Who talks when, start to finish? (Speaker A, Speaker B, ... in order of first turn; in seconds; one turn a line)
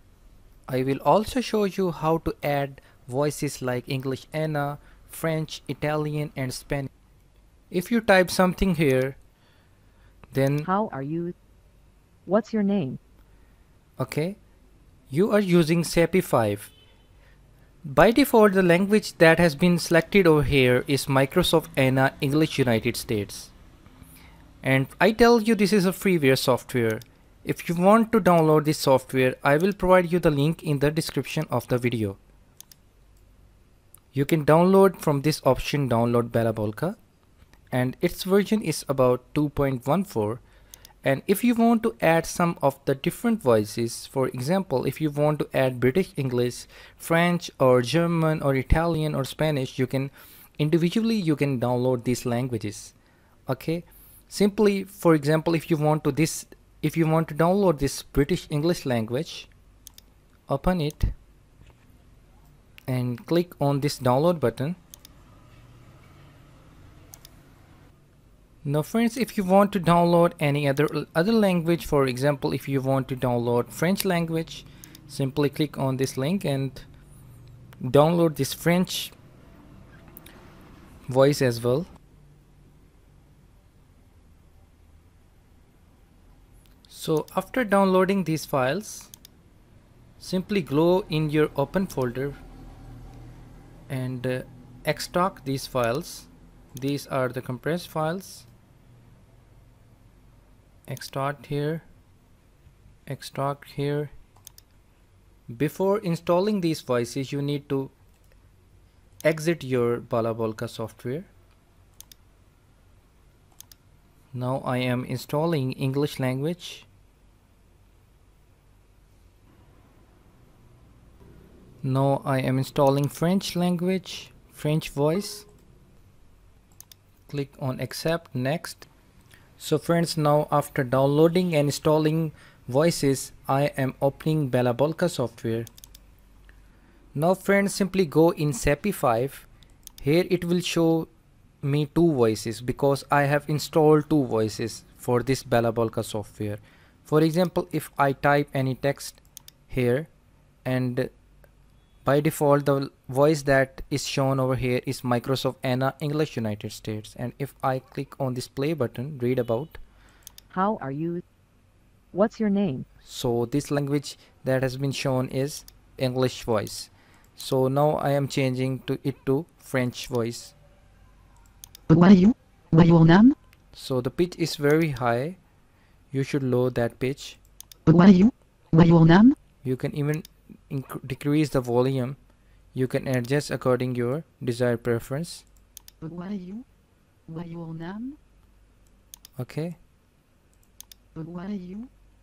Speaker A: 0.7-6.9
Speaker A: 7.7-9.2
Speaker A: 10.3-10.7
Speaker B: 10.6-11.3
Speaker B: 12.2-13.0
Speaker A: 14.0-14.4
Speaker A: 15.1-16.7
Speaker A: 17.8-23.5
Speaker A: 24.6-32.2
Speaker A: 34.1-37.0
Speaker A: 37.7-40.4
Speaker A: 41.0-52.9
Speaker A: 53.5-59.5
Speaker A: 60.5-61.1
Speaker A: 62.9-64.8
Speaker A: 68.6-76.9
Speaker A: 77.8-79.1
Speaker A: 81.1-81.9
Speaker A: 86.9-89.1
Speaker A: 90.2-92.4
Speaker A: 93.9-98.5
Speaker A: 100.9-101.8
Speaker A: 103.1-104.1
Speaker A: 105.5-107.9
Speaker A: 109.2-111.3
Speaker A: 114.3-116.9
Speaker A: 121.8-125.5
Speaker A: 127.3-128.9
Speaker A: 129.6-135.7
Speaker A: 137.1-139.5
Speaker A: 140.0-141.1
Speaker A: 141.6-150.1
Speaker A: 150.6-151.1
Speaker A: 152.0-159.8
Speaker B: 160.5-161.2
Speaker B: 162.1-162.8
Speaker A: 163.0-170.5
Speaker C: 171.9-173.3
Speaker A: 173.7-175.4
Speaker A: 176.1-177.4
Speaker C: 177.9-179.3
Speaker A: 179.6-182.2
Speaker A: 182.7-185.4
Speaker C: 186.0-186.6
Speaker C: 187.3-188.2
Speaker A: 189.4-189.8
Speaker C: 191.1-191.9